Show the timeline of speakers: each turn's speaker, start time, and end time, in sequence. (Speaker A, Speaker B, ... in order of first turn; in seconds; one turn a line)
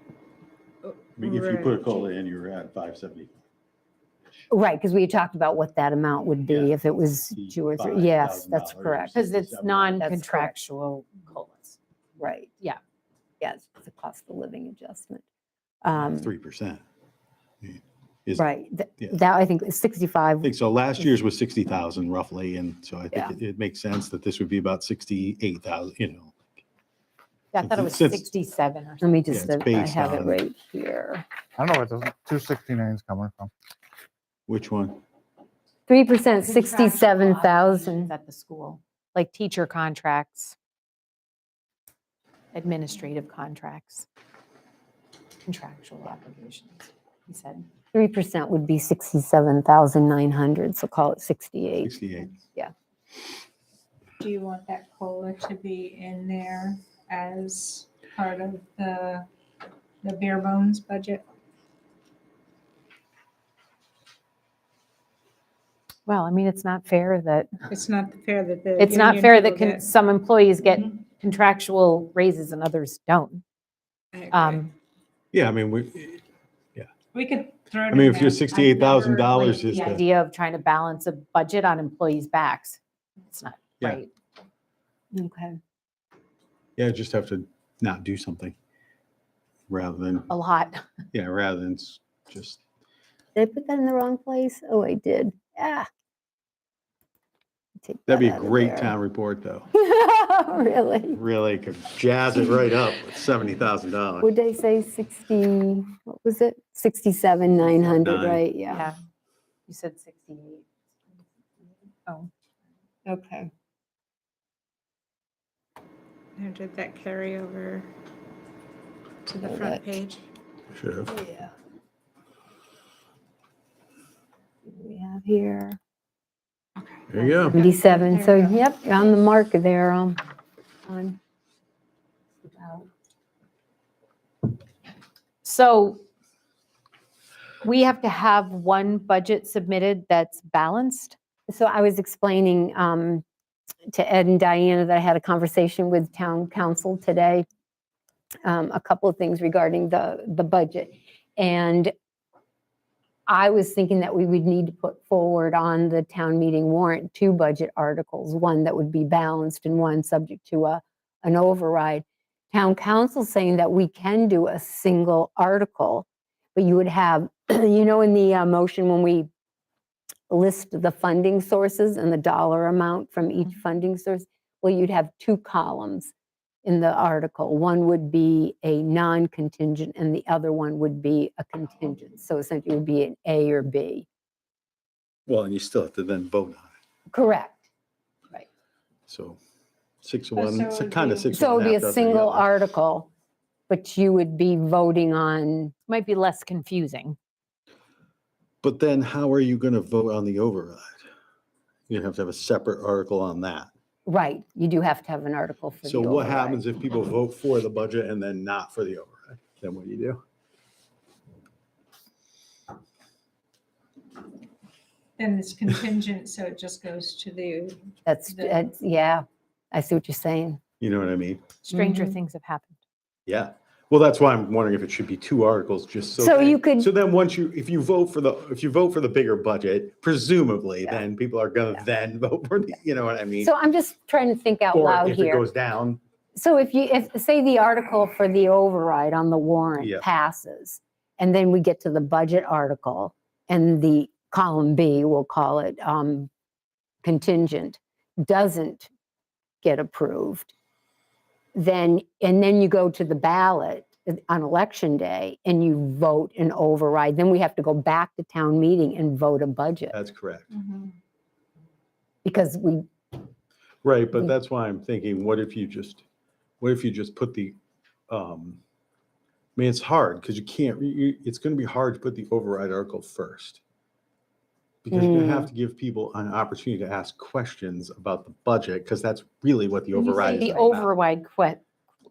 Speaker A: 0.8-2.0
Speaker B: 1.2-3.3
Speaker C: 4.5-9.2
Speaker B: 6.5-10.0
Speaker D: 9.1-11.8
Speaker C: 10.0-10.5
Speaker C: 12.2-12.5
Speaker C: 13.4-15.2
Speaker C: 15.8-16.3
Speaker B: 15.9-16.8
Speaker B: 17.6-18.4
Speaker C: 18.4-20.5
Speaker B: 20.4-26.4
Speaker D: 27.5-29.4
Speaker B: 27.6-28.2
Speaker C: 29.0-31.2
Speaker B: 29.3-30.4
Speaker E: 31.6-33.5
Speaker B: 34.5-35.0
Speaker C: 35.9-38.1
Speaker D: 36.3-40.5
Speaker D: 42.5-44.0
Speaker D: 45.4-47.6
Speaker C: 47.9-51.9
Speaker B: 51.8-52.3
Speaker A: 54.2-59.3
Speaker A: 60.0-61.2
Speaker D: 66.0-67.5
Speaker A: 67.7-69.9
Speaker D: 68.8-73.4
Speaker A: 74.1-74.6
Speaker D: 74.3-74.7
Speaker B: 75.3-76.2
Speaker A: 77.1-79.7
Speaker B: 77.9-80.0
Speaker D: 79.6-84.1
Speaker C: 85.1-85.6
Speaker B: 86.8-88.5
Speaker B: 89.7-90.3
Speaker D: 90.3-90.8
Speaker B: 91.1-92.6
Speaker C: 93.3-95.9
Speaker C: 97.8-98.9
Speaker B: 98.1-99.7
Speaker C: 99.7-101.2
Speaker B: 101.1-104.3
Speaker C: 104.2-108.8
Speaker B: 107.9-108.4
Speaker D: 109.7-110.7
Speaker D: 111.9-112.3
Speaker C: 113.0-113.5
Speaker A: 116.3-117.9
Speaker A: 119.3-120.2
Speaker C: 119.5-119.8
Speaker B: 120.7-121.1
Speaker C: 121.1-121.5
Speaker C: 124.7-125.8
Speaker A: 126.8-128.5
Speaker B: 127.1-127.6
Speaker C: 127.5-130.2
Speaker C: 130.9-131.2
Speaker C: 132.4-132.9
Speaker D: 135.4-136.0
Speaker D: 137.6-141.2
Speaker C: 141.5-143.2
Speaker C: 143.9-147.4
Speaker C: 148.4-151.9
Speaker C: 153.3-169.3
Speaker C: 170.3-176.1
Speaker C: 176.6-184.1
Speaker B: 185.3-186.7
Speaker C: 187.1-187.7
Speaker B: 189.1-189.4
Speaker B: 190.0-192.5
Speaker A: 190.3-191.3
Speaker C: 191.3-193.1
Speaker C: 193.7-195.7
Speaker D: 195.9-197.2
Speaker B: 198.6-201.0
Speaker B: 201.9-203.7
Speaker C: 204.1-206.6
Speaker B: 205.8-210.2
Speaker A: 215.2-218.6
Speaker C: 218.1-220.6
Speaker B: 220.8-221.4
Speaker D: 221.6-222.8
Speaker C: 221.7-222.1
Speaker B: 223.3-233.5
Speaker C: 226.2-226.9
Speaker C: 233.4-235.4
Speaker B: 234.7-236.0
Speaker C: 236.3-246.3
Speaker B: 239.8-240.1
Speaker C: 247.0-248.9
Speaker C: 249.6-250.5
Speaker C: 251.5-259.9
Speaker B: 259.9-260.5
Speaker A: 260.5-260.9
Speaker C: 262.2-262.9
Speaker B: 263.8-266.0
Speaker B: 266.6-267.6
Speaker B: 268.1-268.6
Speaker B: 269.6-273.6
Speaker B: 274.8-280.9
Speaker C: 274.9-275.5
Speaker C: 279.9-280.8
Speaker D: 280.0-281.6